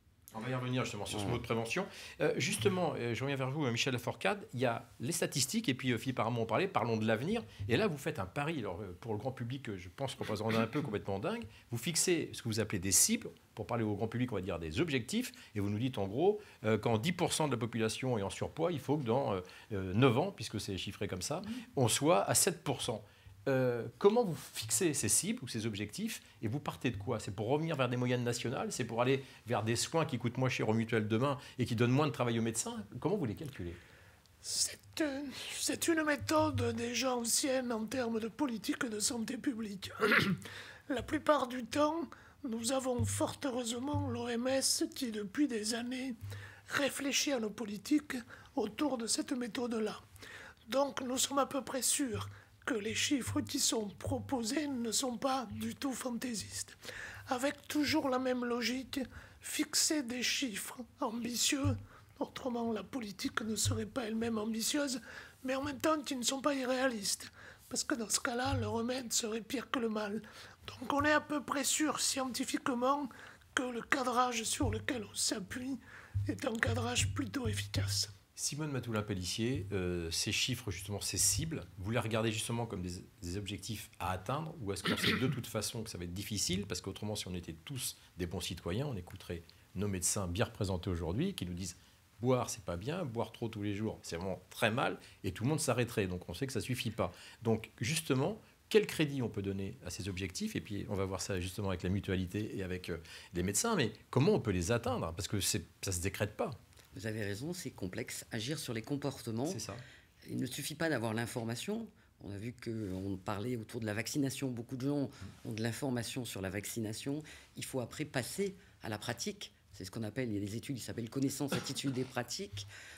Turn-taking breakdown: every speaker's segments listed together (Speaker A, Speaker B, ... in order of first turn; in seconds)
Speaker A: 0.3-33.8, 78.4-106.6, 109.5-109.8
Speaker B: 1.1-1.4, 106.9-109.6, 110.3-122.7
Speaker C: 34.4-46.2, 46.7-50.0, 50.7-78.1